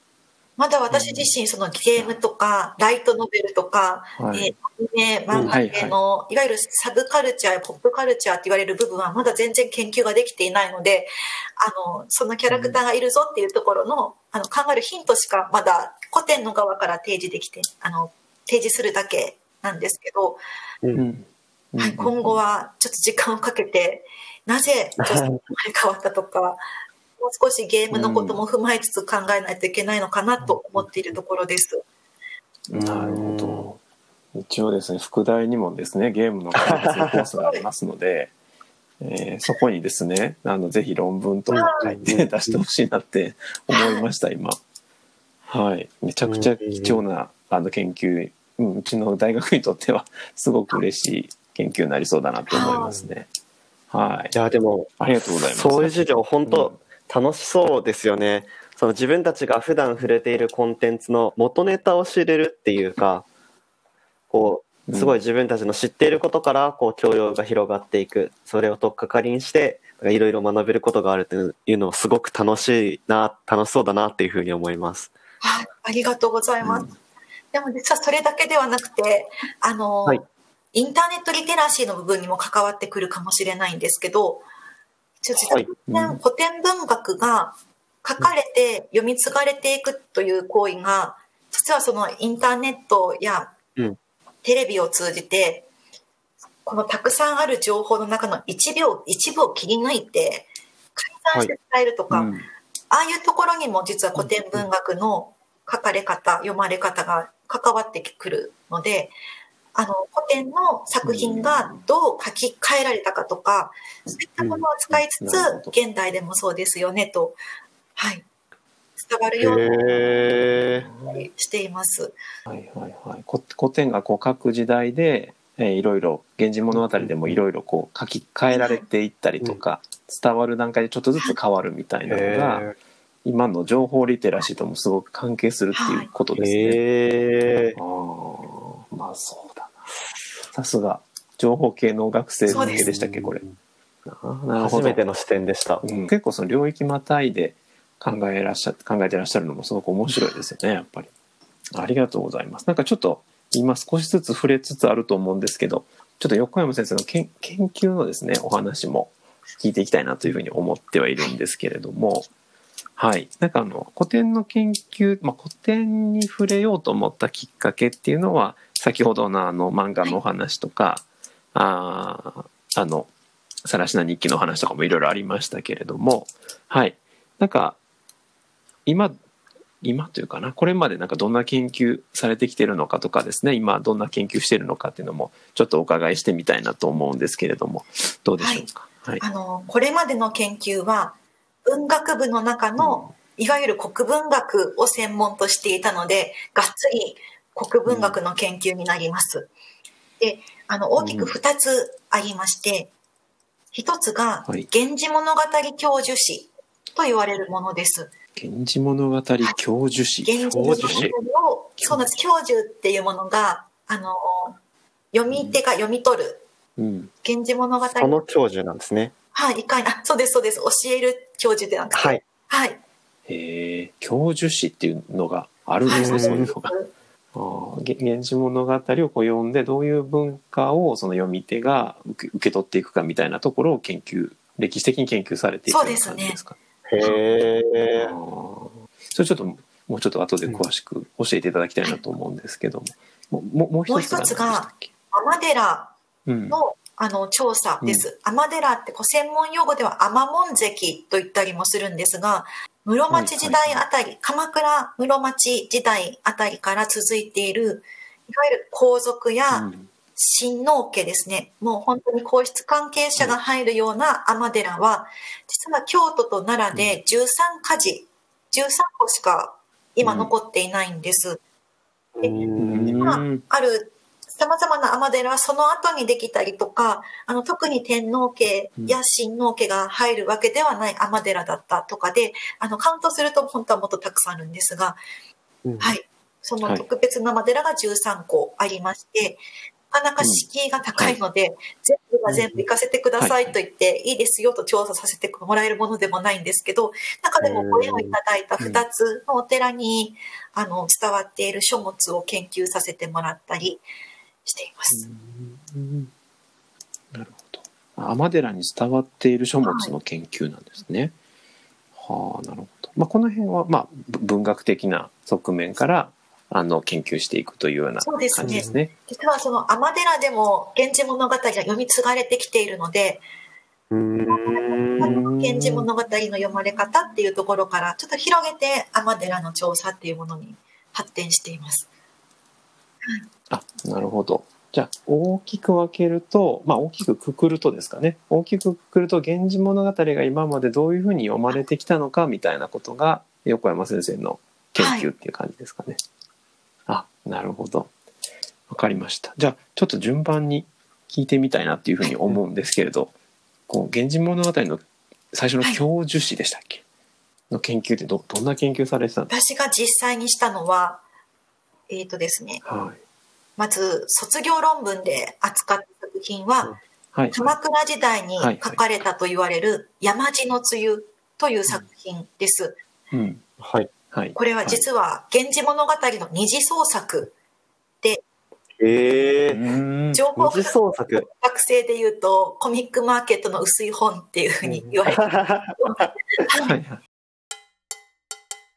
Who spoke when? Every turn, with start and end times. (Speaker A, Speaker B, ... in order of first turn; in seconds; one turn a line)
Speaker A: 0.6-11.1
Speaker B: 0.9-1.3
Speaker B: 4.2-4.5
Speaker B: 5.3-6.0
Speaker A: 11.6-20.4
Speaker B: 20.9-22.4
Speaker A: 21.8-26.6
Speaker C: 25.0-25.3
Speaker A: 27.2-31.8
Speaker B: 27.9-28.4
Speaker C: 30.4-31.0
Speaker B: 32.7-33.8
Speaker C: 32.7-33.7
Speaker B: 34.3-38.3
Speaker C: 36.7-37.1
Speaker A: 37.3-37.6
Speaker B: 39.0-44.6
Speaker C: 41.5-42.6
Speaker A: 41.5-42.0
Speaker A: 43.7-44.1
Speaker B: 45.5-53.3
Speaker C: 46.2-47.0
Speaker A: 52.5-53.1
Speaker B: 53.9-54.3
Speaker C: 54.3-63.2
Speaker B: 55.0-56.8
Speaker C: 64.3-75.1
Speaker B: 64.9-65.2
Speaker A: 75.4-76.9
Speaker B: 76.6-76.9
Speaker A: 77.5-84.5
Speaker A: 85.2-93.5
Speaker C: 85.4-85.7
Speaker B: 85.9-86.2
Speaker A: 94.4-95.7
Speaker A: 96.6-102.3
Speaker B: 102.1-102.4
Speaker A: 102.9-109.1
Speaker C: 104.2-104.7
Speaker A: 109.7-117.4
Speaker B: 111.0-111.8
Speaker B: 114.4-115.7
Speaker A: 118.0-118.2
Speaker A: 119.0-119.7
Speaker C: 119.4-120.9
Speaker B: 119.5-121.3
Speaker A: 121.1-122.2
Speaker B: 122.5-132.7
Speaker C: 126.7-127.4
Speaker A: 128.5-128.8
Speaker C: 132.1-132.7
Speaker B: 133.2-136.8
Speaker A: 135.7-136.1
Speaker C: 136.3-137.8
Speaker B: 137.8-139.9
Speaker B: 140.5-143.4
Speaker C: 142.5-143.5
Speaker A: 142.5-142.9
Speaker B: 144.1-145.1
Speaker C: 144.6-145.8
Speaker B: 145.8-151.1
Speaker B: 151.7-162.3
Speaker B: 163.0-173.1
Speaker B: 173.6-177.8
Speaker B: 178.8-179.1
Speaker B: 179.8-189.2
Speaker A: 188.4-188.7
Speaker A: 189.2-199.5
Speaker B: 192.8-193.1
Speaker B: 197.8-198.2
Speaker A: 200.2-202.9
Speaker B: 201.0-201.3
Speaker A: 203.7-208.1
Speaker B: 208.4-211.2
Speaker A: 210.2-214.6
Speaker C: 210.5-211.1
Speaker B: 211.8-212.0
Speaker A: 215.1-216.4
Speaker B: 215.3-215.6
Speaker B: 216.8-217.1
Speaker A: 217.2-218.2
Speaker C: 217.9-219.1
Speaker A: 219.3-222.8
Speaker C: 221.9-222.2
Speaker B: 223.3-226.7
Speaker A: 225.8-226.9
Speaker C: 225.9-226.5
Speaker B: 227.3-244.9
Speaker A: 235.7-236.4
Speaker C: 236.9-238.1
Speaker A: 243.9-245.9
Speaker B: 246.3-246.6
Speaker A: 246.5-271.4
Speaker B: 253.1-253.8
Speaker B: 259.5-259.9
Speaker B: 266.7-267.0
Speaker B: 270.0-270.3
Speaker C: 272.2-273.2
Speaker A: 272.2-285.0
Speaker B: 272.6-273.4
Speaker C: 285.6-285.9
Speaker A: 285.8-303.8
Speaker B: 290.2-291.2
Speaker C: 292.3-292.6
Speaker B: 293.2-293.6
Speaker C: 297.4-298.2
Speaker A: 304.4-305.0
Speaker B: 304.9-306.1
Speaker B: 307.1-311.1
Speaker A: 309.6-309.9
Speaker B: 311.9-318.9
Speaker A: 318.0-323.2
Speaker C: 318.4-318.7
Speaker C: 323.9-325.2
Speaker A: 324.3-331.9
Speaker B: 325.0-325.9
Speaker B: 333.5-346.0
Speaker A: 344.8-345.1
Speaker B: 346.9-347.9
Speaker B: 348.7-353.1
Speaker B: 353.7-356.8
Speaker B: 357.5-359.3
Speaker A: 359.3-361.0
Speaker A: 361.9-362.6
Speaker B: 362.6-363.0
Speaker A: 363.6-366.7
Speaker B: 367.1-367.6
Speaker A: 367.3-372.8
Speaker B: 368.4-368.8
Speaker B: 373.1-373.4
Speaker C: 373.6-373.9
Speaker B: 374.1-374.8
Speaker A: 374.4-377.3
Speaker C: 378.8-379.6
Speaker B: 379.5-380.4
Speaker A: 380.1-386.8
Speaker C: 380.4-381.3
Speaker C: 384.6-386.0
Speaker B: 386.6-387.0